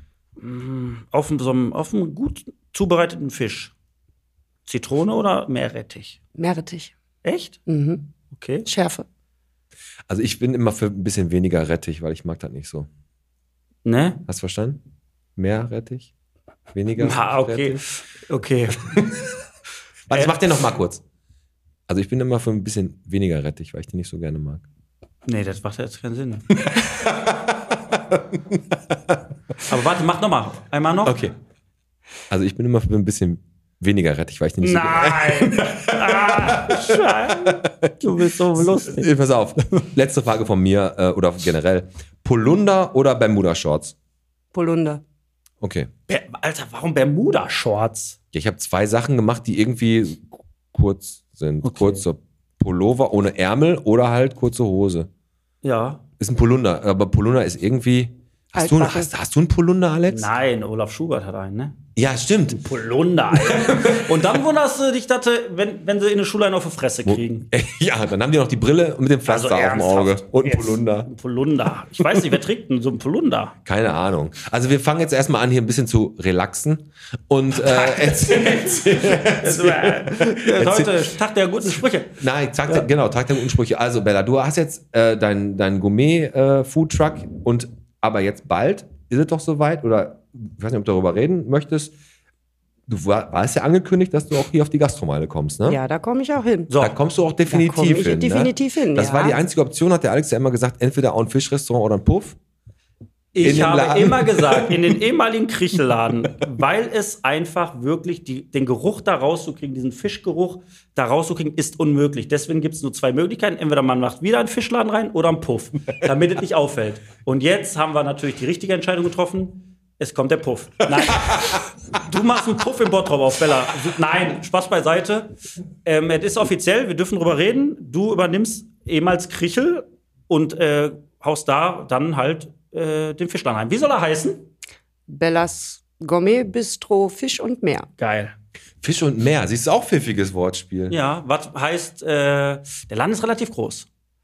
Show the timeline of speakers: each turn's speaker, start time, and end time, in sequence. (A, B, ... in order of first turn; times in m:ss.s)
0:00.4-0:03.7 A
0:04.7-0:06.2 A
0:06.4-0:06.9 B
0:07.2-0:07.6 A
0:07.7-0:08.1 B
0:08.3-0:08.7 A
0:08.7-0:09.1 B
0:10.1-0:12.9 C
0:13.8-0:14.2 A
0:14.3-0:14.8 C
0:15.4-0:16.1 C
0:16.7-0:17.8 C
0:17.0-0:18.9 A
0:18.7-0:19.3 C
0:20.1-0:21.0 C
0:21.9-0:24.6 C
0:25.3-0:26.5 A
0:26.6-0:29.2 C
0:29.7-0:31.2 A
0:31.0-0:31.3 C
0:32.3-0:44.0 C
0:34.6-0:39.1 A
0:44.5-0:45.0 B
0:45.6-0:45.9 C
0:46.1-0:48.2 A
0:48.3-0:55.1 C
0:51.6-0:52.0 A
0:55.6-0:56.0 A
0:56.2-1:00.3 C
0:58.6-0:59.1 B
1:00.1-1:01.8 A
1:02.0-1:02.6 C
1:02.5-1:07.5 A
1:03.4-1:04.4 C
1:07.0-1:11.1 C
1:09.3-1:13.6 A
1:12.0-1:12.3 C
1:13.6-1:21.0 C
1:17.5-1:22.9 A
1:22.2-1:31.9 C
1:32.9-1:35.8 C
1:35.7-1:36.7 B
1:36.7-1:37.0 A
1:36.8-1:42.4 C
1:37.5-1:39.4 B
1:43.3-2:05.3 A
1:43.4-1:44.9 C
2:01.0-2:01.6 C
2:05.8-2:14.4 A
2:15.1-2:17.9 B
2:18.0-2:18.4 A
2:18.8-2:21.0 C
2:20.9-2:23.9 A